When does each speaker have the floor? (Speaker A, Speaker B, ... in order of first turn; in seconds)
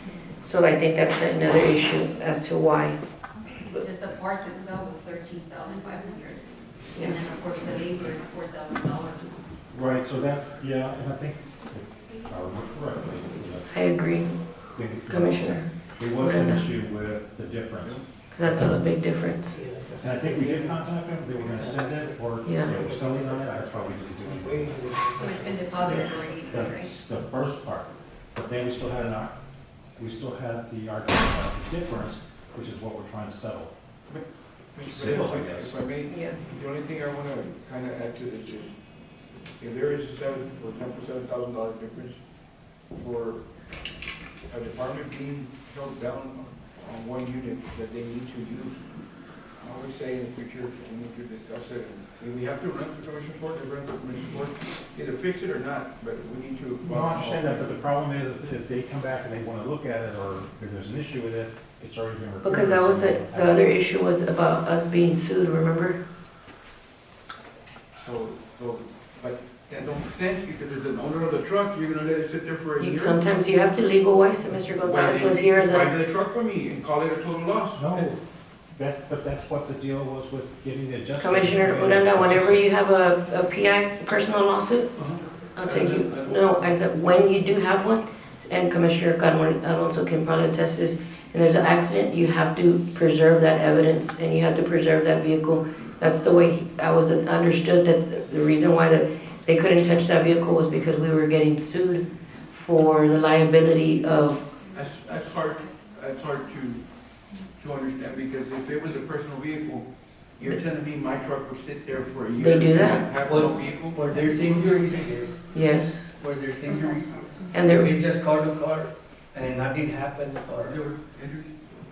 Speaker A: 0.4-3.0, 13.7-14.3, 15.1-16.7, 18.3-19.6, 22.4-22.7, 36.1-36.4, 62.4-66.0, 72.8-75.9, 81.2-84.9, 85.5-104.4, 112.4-113.0, 115.5-116.1, 117.5-117.9
Speaker B: 3.7-9.4, 25.1-26.9, 103.3-103.7, 114.0-115.5, 116.6-117.5
Speaker C: 9.7-13.7, 14.7-18.8, 20.0-24.8, 26.5-29.4, 30.0-33.7, 34.8-35.8, 56.8-63.6, 77.7-78.2, 78.7-82.6
Speaker D: 19.5-20.8, 21.4-26.0, 113.2-115.4, 116.2-120.9
Speaker E: 34.7-38.7, 39.6-42.2, 42.9-43.4, 44.5-48.8, 49.6-57.9, 68.0-73.2, 74.8-78.1, 85.0-86.6, 104.7-106.8, 107.6-114.5, 120.6-121.6